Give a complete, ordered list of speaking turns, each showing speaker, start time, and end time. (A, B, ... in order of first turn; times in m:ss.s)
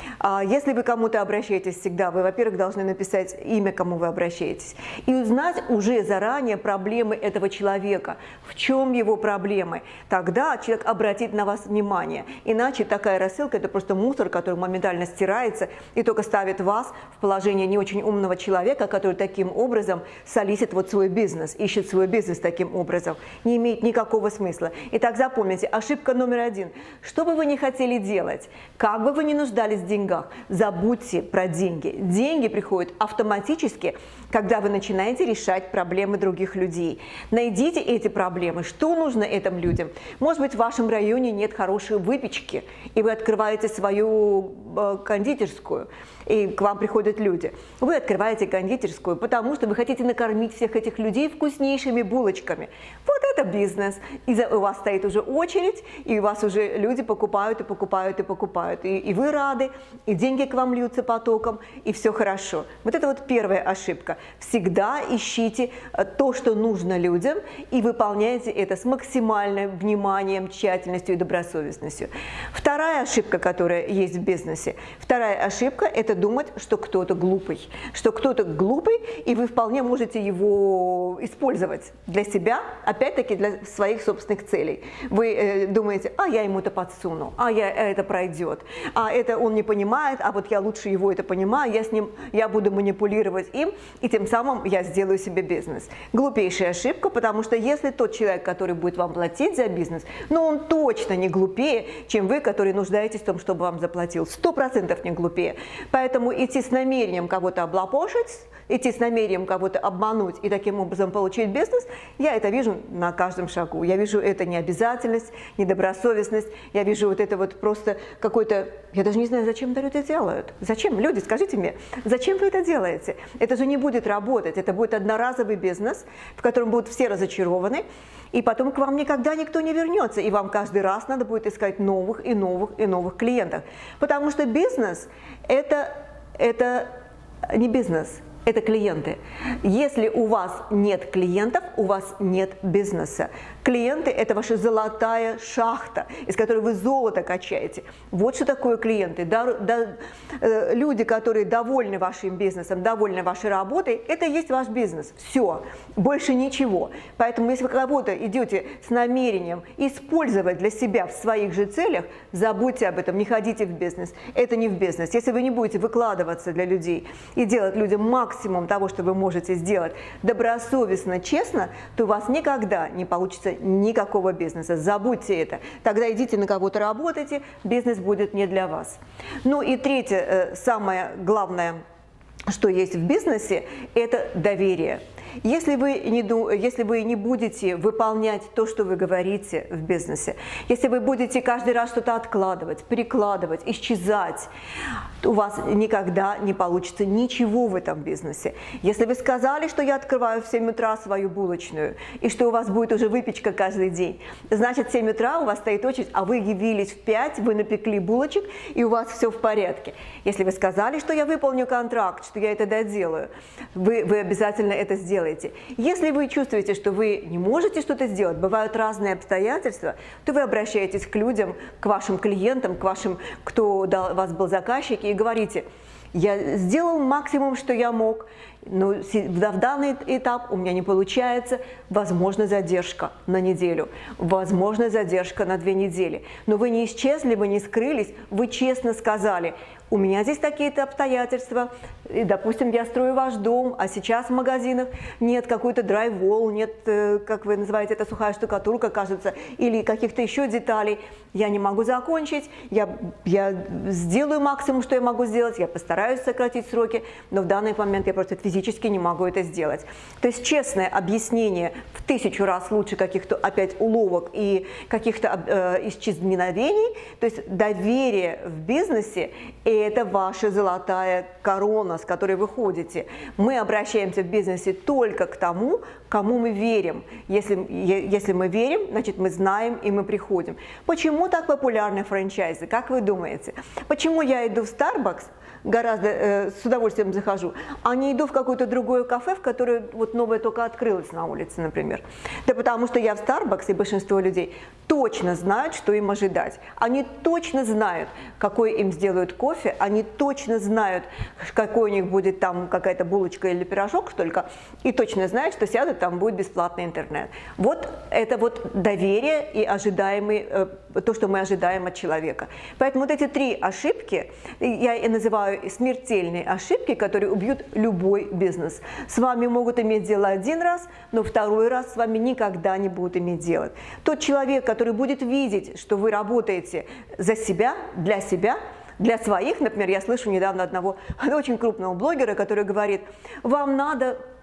0:00.2-2:16.9 A
2:17.5-3:01.8 A
3:02.5-3:14.5 A
3:15.2-5:34.2 A